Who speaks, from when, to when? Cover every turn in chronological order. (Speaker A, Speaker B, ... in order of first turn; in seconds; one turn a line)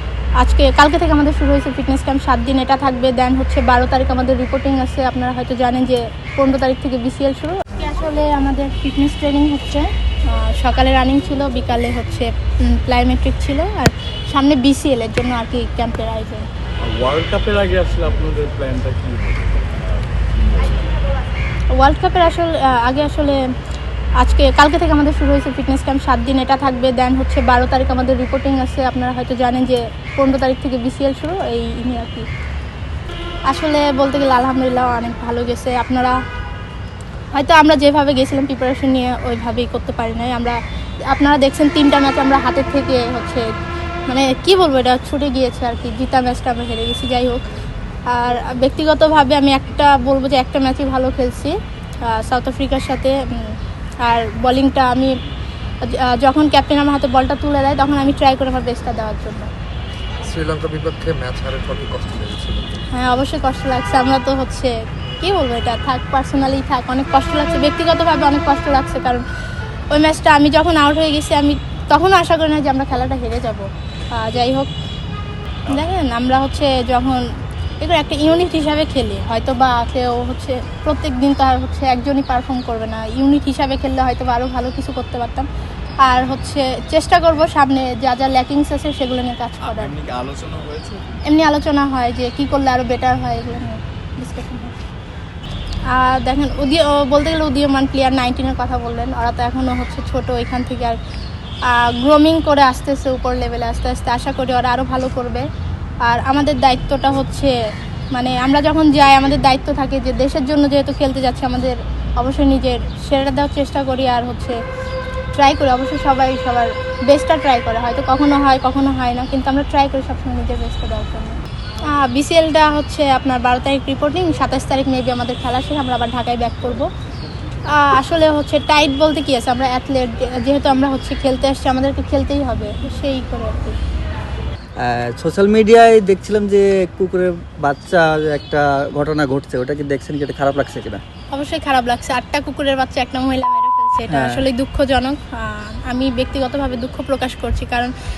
Speaker A: 0.4-16.5
Speaker B: 16.8-20.8
Speaker A: 21.7-23.4
Speaker A: 24.2-32.3
Speaker A: 33.5-36.2
Speaker A: 37.3-43.5
Speaker A: 44.1-47.5
Speaker A: 48.1-55.2
Speaker A: 55.8-59.5
Speaker C: 60.2-62.8
Speaker A: 62.9-69.2
Speaker A: 69.9-74.7
Speaker A: 75.7-77.2
Speaker A: 77.8-85.5
Speaker A: 86.0-89.9
Speaker B: 89.6-91.2
Speaker A: 91.2-94.8
Speaker A: 95.9-101.0
Speaker A: 101.7-105.5
Speaker A: 106.0-107.6
Speaker A: 108.1-114.6
Speaker A: 115.4-126.9
Speaker A: 127.7-133.8
Speaker D: 134.8-141.0
Speaker A: 141.3-147.9
Speaker D: 144.1-144.5